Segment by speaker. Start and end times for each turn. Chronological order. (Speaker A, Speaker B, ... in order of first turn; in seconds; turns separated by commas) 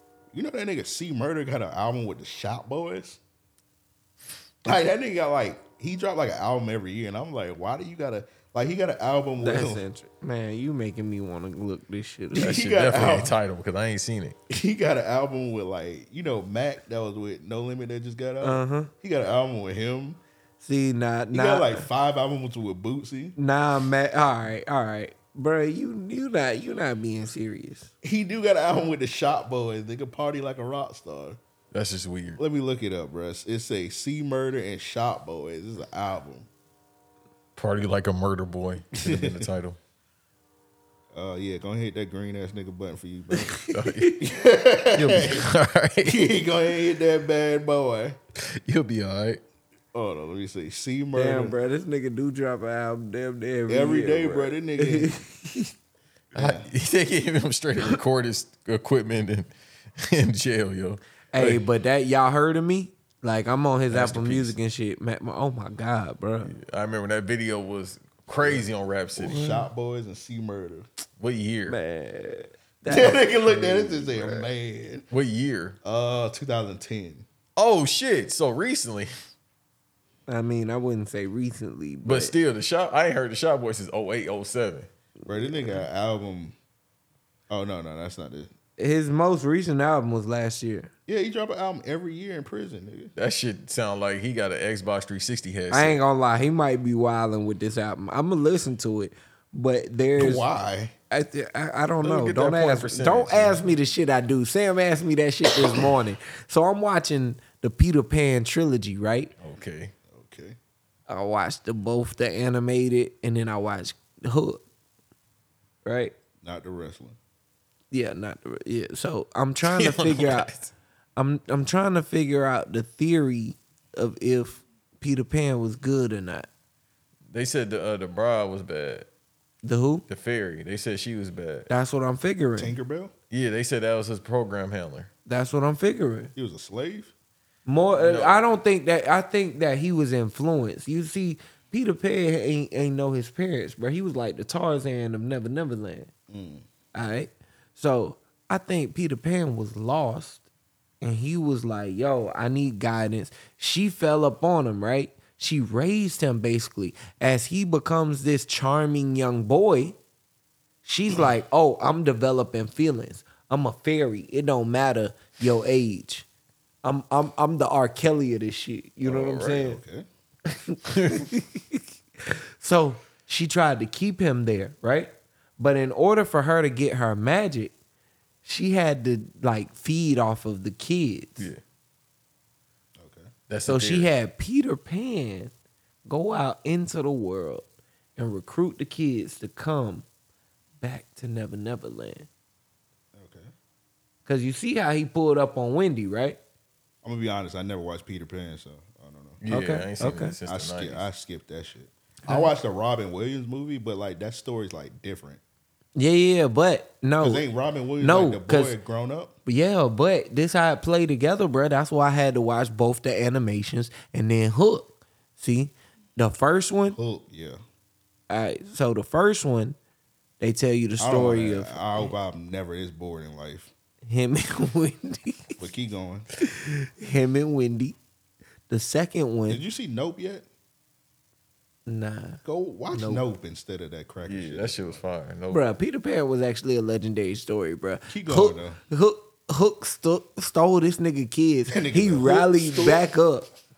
Speaker A: 0.3-3.2, Speaker A: 4.7-9.8, Speaker B: 9.4-12.5, Speaker A: 12.3-13.4, Speaker C: 12.4-14.4, Speaker A: 14.5-20.2, Speaker B: 18.4-18.9, Speaker B: 20.6-21.9, Speaker A: 21.3-23.4, Speaker B: 23.4-27.9, Speaker A: 28.0-31.4, Speaker C: 31.7-32.4, Speaker A: 32.4-36.5, Speaker C: 37.6-39.8, Speaker A: 39.0-39.5, Speaker A: 41.1-43.6, Speaker B: 43.5-44.1, Speaker C: 43.7-44.2, Speaker A: 44.2-45.5, Speaker C: 45.0-46.3, Speaker A: 46.0-48.2, Speaker C: 48.5-49.4, Speaker A: 49.9-51.6, Speaker B: 51.1-55.7, Speaker A: 53.7-55.1, Speaker A: 56.4-56.7, Speaker C: 56.4-61.6, Speaker B: 61.3-66.5, Speaker C: 63.9-64.6, Speaker C: 66.5-69.6, Speaker A: 69.2-70.9, Speaker C: 71.2-71.8, Speaker B: 71.7-74.3, Speaker A: 72.9-75.1, Speaker C: 75.1-75.8, Speaker A: 75.8-77.3, Speaker C: 77.6-79.1, Speaker B: 80.3-82.3, Speaker C: 82.0-84.9, Speaker A: 85.3-86.6, Speaker B: 85.4-85.8, Speaker A: 87.5-88.5, Speaker B: 88.8-90.9, Speaker A: 91.1-93.1, Speaker C: 93.2-96.0, Speaker B: 95.7-100.5, Speaker A: 100.2-101.0, Speaker B: 101.1-109.3, Speaker C: 102.0-103.7, Speaker C: 109.4-109.9, Speaker A: 110.1-110.6, Speaker B: 111.1-114.6, Speaker B: 115.8-116.1, Speaker A: 116.4-117.2, Speaker B: 117.9-120.5, Speaker C: 119.6-120.7, Speaker B: 121.2-126.5, Speaker C: 127.3-129.1, Speaker B: 129.6-130.0, Speaker C: 130.1-131.7, Speaker B: 131.7-132.8, Speaker A: 132.6-133.1, Speaker C: 133.3-135.1, Speaker B: 135.3-136.3, Speaker A: 136.4-137.1, Speaker B: 137.7-146.1, Speaker C: 137.9-138.4, Speaker A: 146.3-146.7, Speaker B: 146.9-150.4, Speaker B: 151.0-160.0, Speaker B: 160.8-166.3, Speaker B: 166.8-169.8, Speaker C: 169.0-169.6, Speaker A: 169.6-170.1, Speaker B: 170.8-177.7, Speaker C: 170.9-171.2, Speaker B: 178.4-181.5, Speaker A: 183.0-183.3, Speaker C: 183.5-184.1, Speaker B: 183.7-185.5, Speaker B: 186.1-190.1, Speaker B: 190.8-192.3, Speaker A: 193.1-193.5, Speaker B: 194.3-196.4, Speaker A: 197.0-199.4, Speaker C: 199.4-201.1, Speaker B: 199.5-200.3, Speaker A: 200.5-205.4, Speaker B: 206.0-207.4, Speaker A: 207.2-209.3, Speaker B: 208.0-208.8, Speaker B: 209.5-217.0, Speaker A: 216.9-217.6, Speaker B: 218.3-219.8, Speaker B: 220.4-222.1, Speaker A: 221.0-223.7, Speaker B: 224.1-225.6, Speaker A: 225.6-226.3, Speaker B: 226.5-228.0, Speaker B: 228.7-229.6, Speaker A: 229.5-230.5, Speaker B: 231.9-233.2, Speaker A: 232.4-235.0, Speaker C: 234.2-235.7, Speaker B: 235.5-243.5, Speaker A: 238.1-238.8, Speaker A: 241.7-243.0